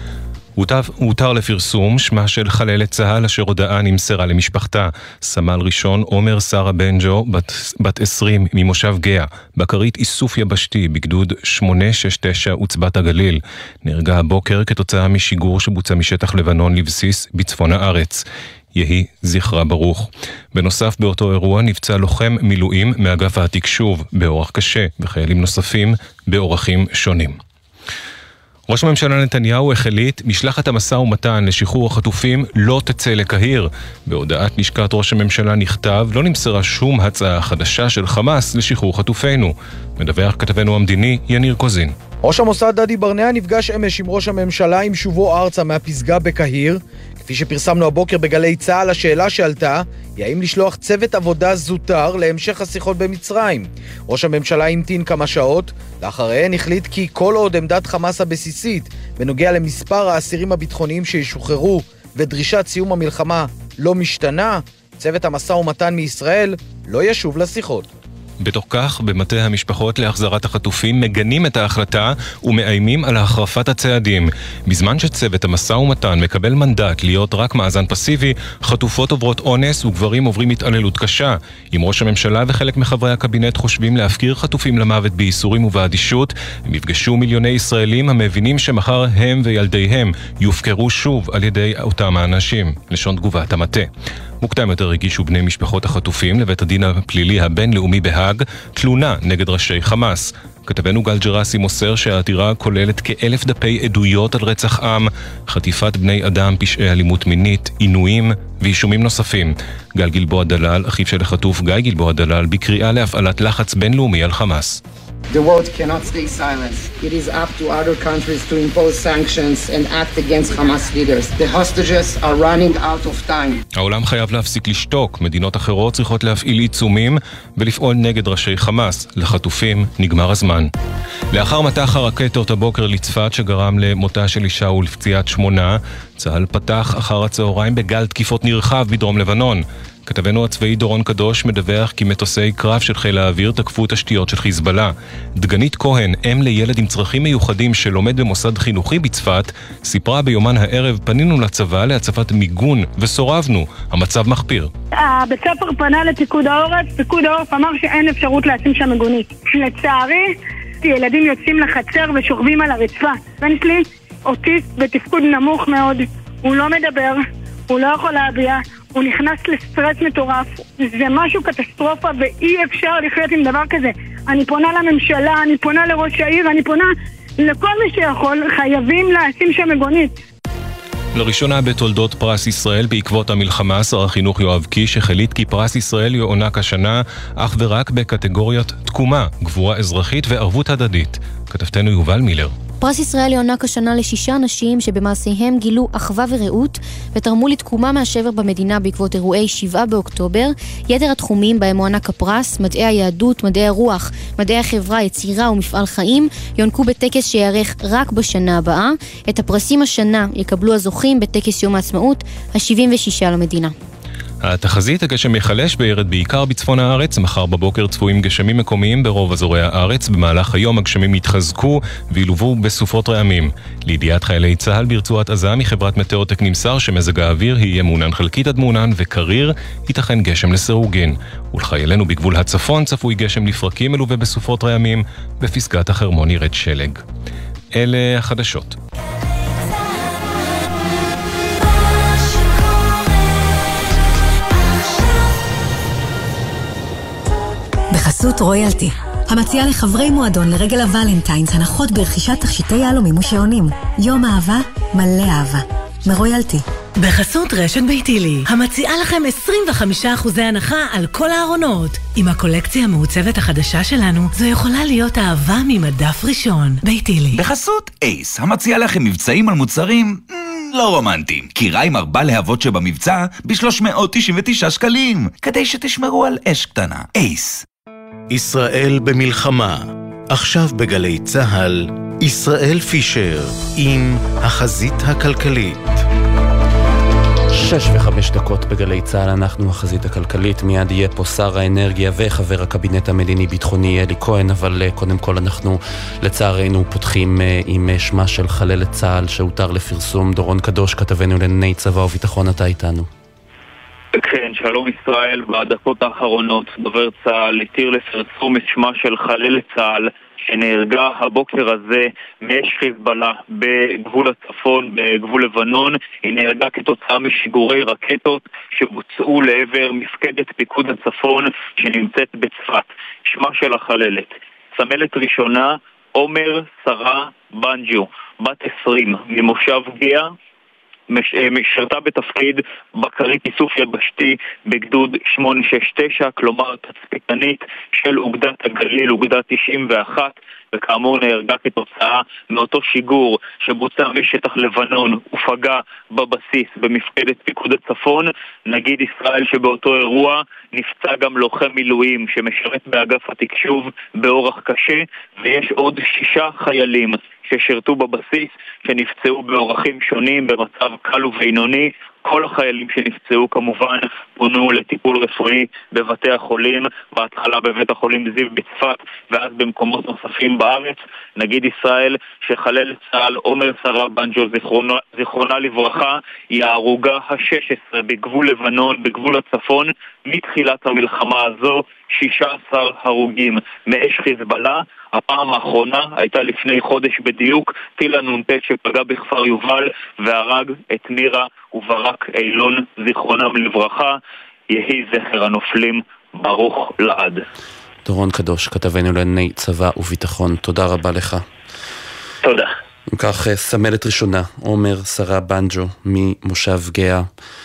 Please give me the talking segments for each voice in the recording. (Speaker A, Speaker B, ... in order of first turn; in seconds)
Speaker A: 0.6-27.4, 28.7-41.9, 68.4-93.9, 94.4-114.8, 123.8-130.7, 131.3-154.7, 181.1-192.5, 214.4-237.0, 237.7-238.8
Speaker B: 42.2-67.9
Speaker C: 115.3-123.6
Speaker D: 154.9-180.2
Speaker E: 192.8-213.7
Speaker F: 247.9-256.6
Speaker G: 257.0-267.4
Speaker H: 267.3-277.6
Speaker I: 278.3-286.0
Speaker J: 287.5-303.1, 398.1-401.4, 403.1-407.3
Speaker K: 304.1-330.3, 331.1-394.2, 394.7-397.4